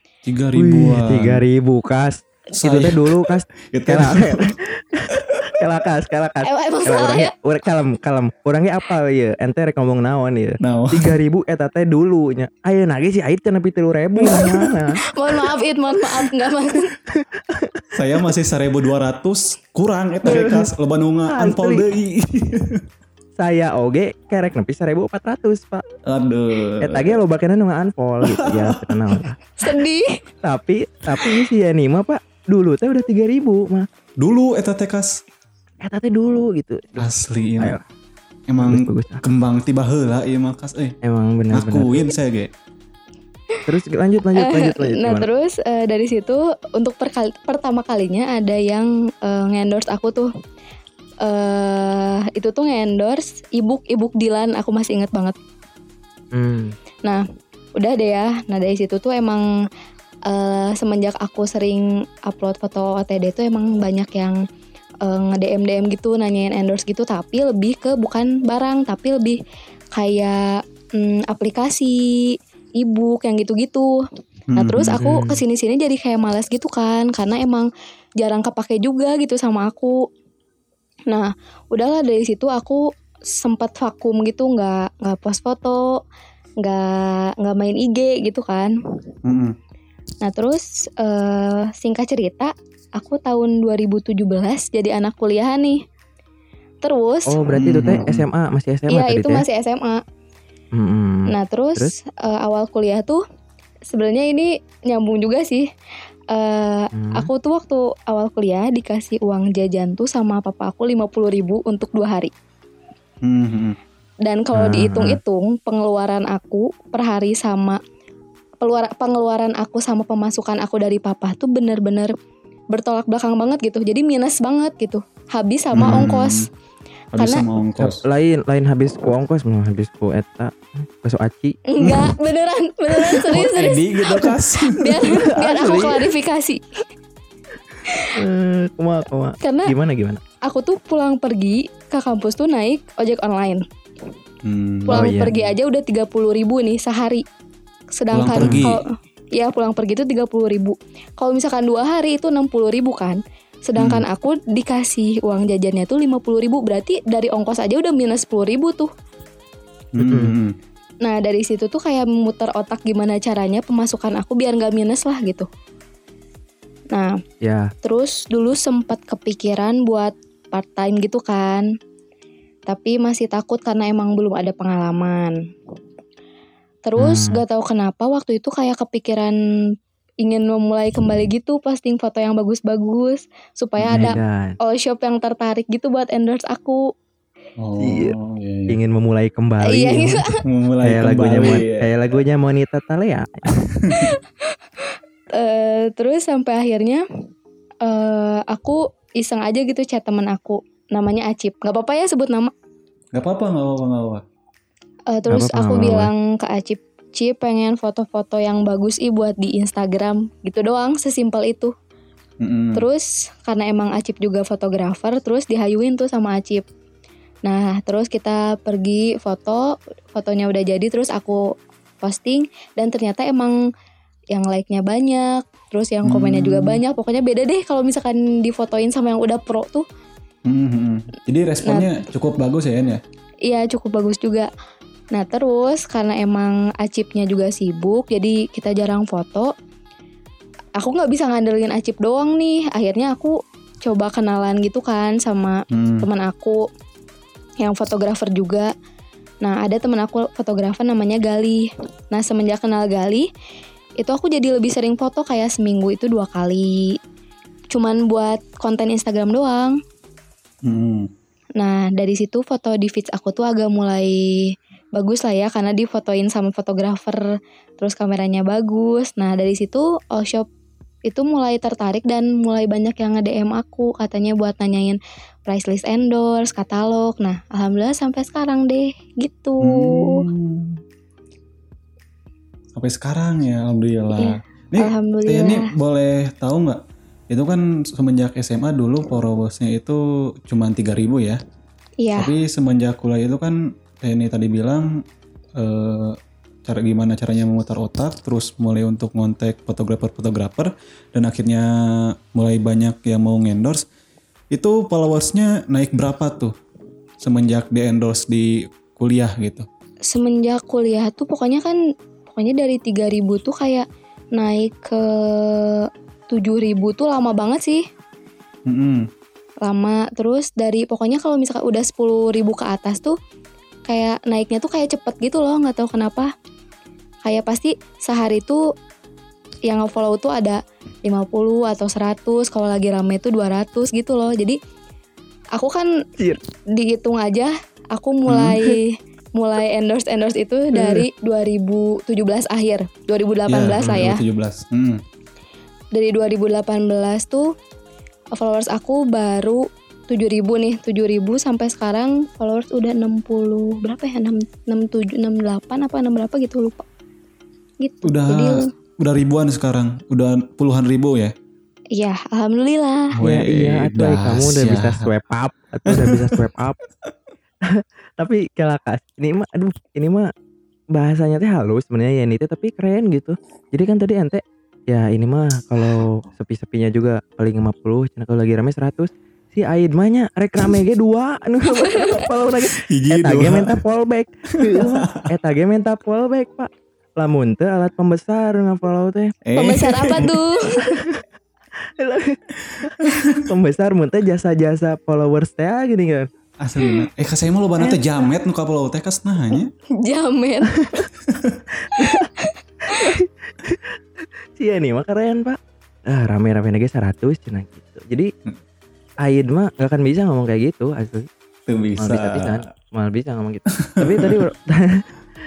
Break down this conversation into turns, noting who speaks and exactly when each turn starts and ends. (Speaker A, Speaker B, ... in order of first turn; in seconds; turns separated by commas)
Speaker A: 0.2-1.4, Speaker B: 0.6-15.0, Speaker A: 2.5-4.5, Speaker A: 5.1-5.5, Speaker C: 6.4-7.3, Speaker A: 10.6-11.2, Speaker C: 15.1-16.9, Speaker B: 17.1-18.2, Speaker A: 17.9-22.8, Speaker B: 20.2-20.7, Speaker B: 21.3-21.8, Speaker B: 23.4-25.8, Speaker A: 26.1-27.2, Speaker B: 26.8-29.4, Speaker A: 28.2-29.2, Speaker C: 29.6-30.1, Speaker B: 30.4-33.9, Speaker A: 34.2-35.2, Speaker B: 35.8-37.8, Speaker A: 37.0-37.8, Speaker A: 38.5-40.9, Speaker B: 38.6-39.2, Speaker B: 41.0-42.1, Speaker A: 41.5-42.5, Speaker B: 43.7-45.3, Speaker C: 44.4-50.3, Speaker C: 51.2-55.3, Speaker B: 56.3-56.8, Speaker C: 57.8-59.4, Speaker C: 60.3-64.4, Speaker C: 65.0-69.4, Speaker C: 69.9-74.0, Speaker A: 74.5-75.0, Speaker C: 74.5-77.7, Speaker B: 75.0-75.4, Speaker C: 78.2-80.0, Speaker C: 81.1-86.0, Speaker C: 86.6-88.7, Speaker A: 89.2-89.5, Speaker C: 90.2-95.8, Speaker C: 96.8-97.4, Speaker B: 97.3-99.4, Speaker A: 97.5-98.2, Speaker C: 98.9-100.0, Speaker B: 100.7-101.9, Speaker C: 101.3-103.2, Speaker C: 103.9-105.7, Speaker C: 106.3-112.3, Speaker B: 106.9-107.3, Speaker A: 113.2-113.8, Speaker C: 114.2-117.8, Speaker B: 114.5-115.2, Speaker C: 118.6-122.1, Speaker C: 122.7-126.5, Speaker A: 125.7-126.5, Speaker A: 127.1-128.0, Speaker C: 127.2-127.4, Speaker B: 127.8-131.6, Speaker C: 131.7-136.6, Speaker A: 131.8-132.1, Speaker A: 133.2-135.2, Speaker B: 135.2-136.1, Speaker C: 137.9-138.1, Speaker B: 138.2-140.2, Speaker C: 139.4-139.7, Speaker C: 140.4-143.6, Speaker A: 144.4-145.3, Speaker C: 144.9-147.2, Speaker B: 144.9-145.3, Speaker C: 147.9-158.9, Speaker A: 148.1-148.8, Speaker B: 148.3-148.7, Speaker A: 153.8-154.0, Speaker A: 159.9-160.5, Speaker B: 160.0-160.3, Speaker C: 161.0-165.5, Speaker C: 166.9-167.2, Speaker B: 167.4-167.7, Speaker C: 167.8-171.7, Speaker C: 172.7-175.3, Speaker C: 176.8-179.3, Speaker B: 177.0-177.4, Speaker C: 180.2-186.8, Speaker A: 183.8-184.2, Speaker B: 183.9-184.6, Speaker A: 187.6-188.8, Speaker B: 187.8-188.1, Speaker B: 188.7-190.2, Speaker C: 189.6-190.4, Speaker A: 190.4-191.9, Speaker B: 190.8-193.5, Speaker A: 193.6-194.1, Speaker C: 195.3-197.0, Speaker C: 197.8-202.5, Speaker A: 203.1-204.2, Speaker C: 205.1-211.7, Speaker B: 205.3-206.1, Speaker A: 212.4-212.8, Speaker C: 212.7-216.6, Speaker C: 217.4-221.5, Speaker C: 222.0-223.6, Speaker C: 224.3-229.8, Speaker A: 226.0-226.8, Speaker A: 230.4-233.0, Speaker C: 231.6-231.9, Speaker C: 233.4-234.5, Speaker C: 235.1-239.5, Speaker C: 240.8-246.6, Speaker A: 245.7-246.1, Speaker C: 247.6-248.7, Speaker C: 249.4-253.3, Speaker C: 254.0-256.9, Speaker C: 257.7-259.8, Speaker A: 260.6-261.1, Speaker C: 261.6-267.2, Speaker C: 267.8-270.5, Speaker C: 271.1-280.2, Speaker A: 279.6-280.8, Speaker A: 282.7-291.4, Speaker C: 284.2-285.7, Speaker C: 292.0-292.3, Speaker A: 292.1-294.9, Speaker A: 295.6-303.8, Speaker A: 304.5-306.5, Speaker A: 307.2-309.6, Speaker C: 310.1-311.8, Speaker C: 312.3-317.8, Speaker A: 318.7-319.1, Speaker C: 319.6-323.1, Speaker C: 323.9-326.3, Speaker C: 327.2-328.6, Speaker C: 329.7-334.6, Speaker C: 335.5-335.9, Speaker C: 336.7-344.2, Speaker A: 338.3-338.6, Speaker B: 340.7-341.1, Speaker A: 343.5-345.0, Speaker C: 345.9-347.5, Speaker C: 348.3-356.9, Speaker C: 357.8-358.7, Speaker A: 358.0-361.3, Speaker C: 361.9-363.1, Speaker A: 363.1-365.1, Speaker B: 363.2-366.8, Speaker A: 365.9-366.4, Speaker B: 367.6-370.3, Speaker B: 370.9-389.3, Speaker C: 381.8-382.1, Speaker A: 382.7-383.8, Speaker A: 384.6-385.3, Speaker A: 389.4-390.3, Speaker C: 389.5-391.0, Speaker B: 390.9-391.2, Speaker B: 392.0-396.3, Speaker A: 392.6-393.4, Speaker A: 396.6-399.7, Speaker C: 399.9-401.0, Speaker B: 400.8-401.1, Speaker A: 401.2-401.6, Speaker B: 401.8-402.3, Speaker C: 402.0-403.1, Speaker B: 402.9-408.3, Speaker B: 409.2-411.3, Speaker A: 411.7-412.6, Speaker B: 412.0-415.1, Speaker A: 413.8-414.4